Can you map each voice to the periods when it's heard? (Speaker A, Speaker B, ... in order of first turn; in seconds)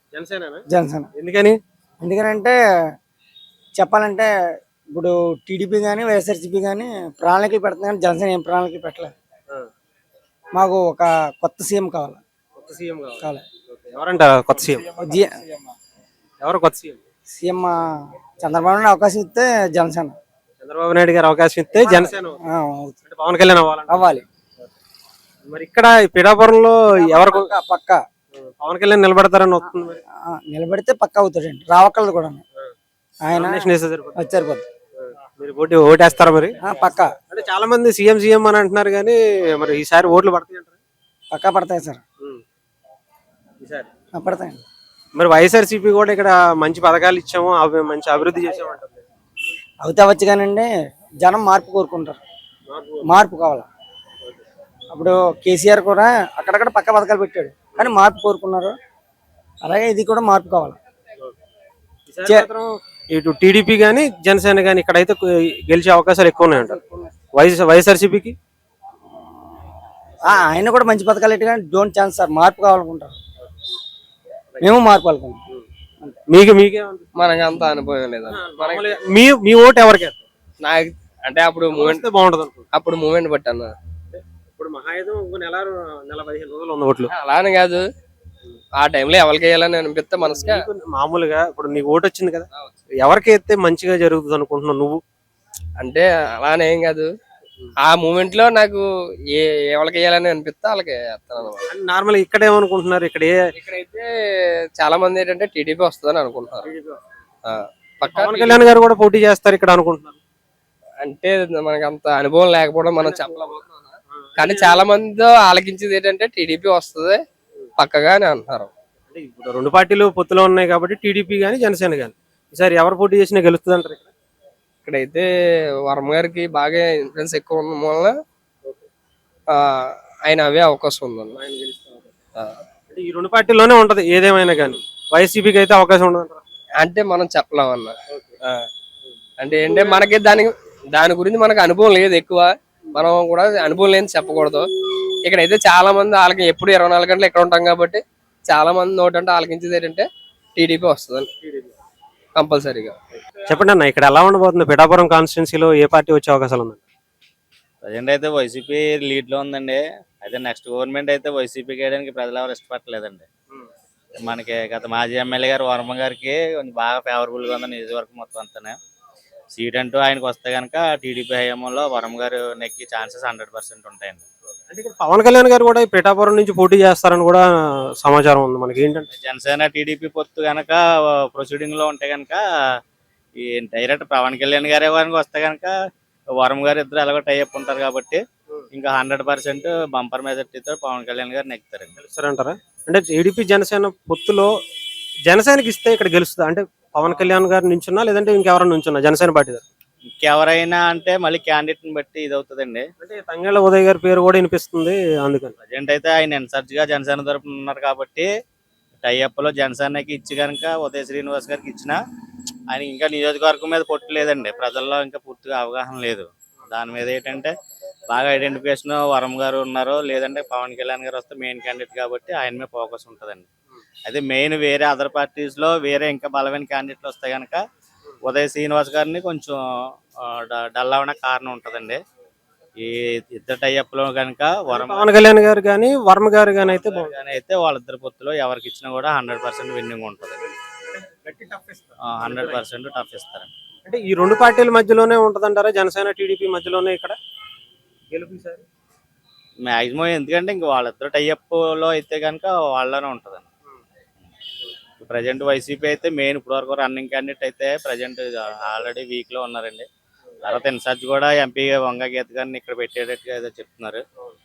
Speaker A: 0.1-0.6, 1.1-1.6, 12.5-14.9, 16.4-17.0, 20.6-22.4, 23.1-24.2, 25.5-27.5, 28.4-30.0, 33.3-34.2, 35.0-36.6, 37.3-40.8, 43.6-43.9, 45.1-49.0, 52.7-53.1, 62.1-66.8, 67.3-68.3, 76.3-77.1, 78.3-80.2, 81.7-82.7, 84.1-87.1, 90.2-95.0, 101.7-103.5, 106.6-107.0, 108.1-110.2, 114.1-114.8, 119.1-124.1, 131.4-132.1, 132.9-136.4, 153.5-156.8, 174.7-177.4, 178.0-179.1, 192.0-194.5, 195.3-199.7, 203.0-205.5, 234.7-237.1, 241.0-242.6, 243.8-247.2, 248.1-248.6
Speaker B: 0.7-1.1, 2.0-2.5, 3.8-4.3, 4.9-9.1, 10.6-12.2, 15.0-15.3, 17.3-17.8, 18.4-20.1, 21.8-22.9, 23.9-24.2, 27.0-28.0, 30.3-32.4, 33.2-34.6, 36.6-37.1, 41.3-42.0, 44.2-44.6, 49.8-50.7, 51.2-52.2, 53.0-53.7, 54.9-58.7, 59.6-60.8, 66.4-67.1, 70.3-73.2, 74.6-75.4
Speaker C: 77.2-78.9, 80.6-82.0, 82.7-83.7, 87.1-87.8, 88.8-90.6, 95.8-97.1, 97.9-101.7, 103.5-104.1, 104.8-106.7, 107.4-108.7, 111.0-117.2, 117.8-118.7, 124.8-125.3, 125.9-128.1, 129.5-131.4, 136.8-138.6, 139.4-144.7, 145.2-150.1, 150.6-151.3, 152.3-152.9
Speaker D: 157.8-163.2, 164.2-168.8, 169.5-174.2, 179.1-182.4, 183.4-185.7, 186.4-188.2, 188.7-191.9, 200.2-202.9, 205.6-208.3, 209.0-212.0, 212.7-217.5, 218.1-223.4, 224.0-227.6, 228.2-229.6, 230.2-232.0, 232.8-235.1, 236.6-240.4, 242.0-243.5, 249.7-253.4, 255.0-259.9, 260.4-264.0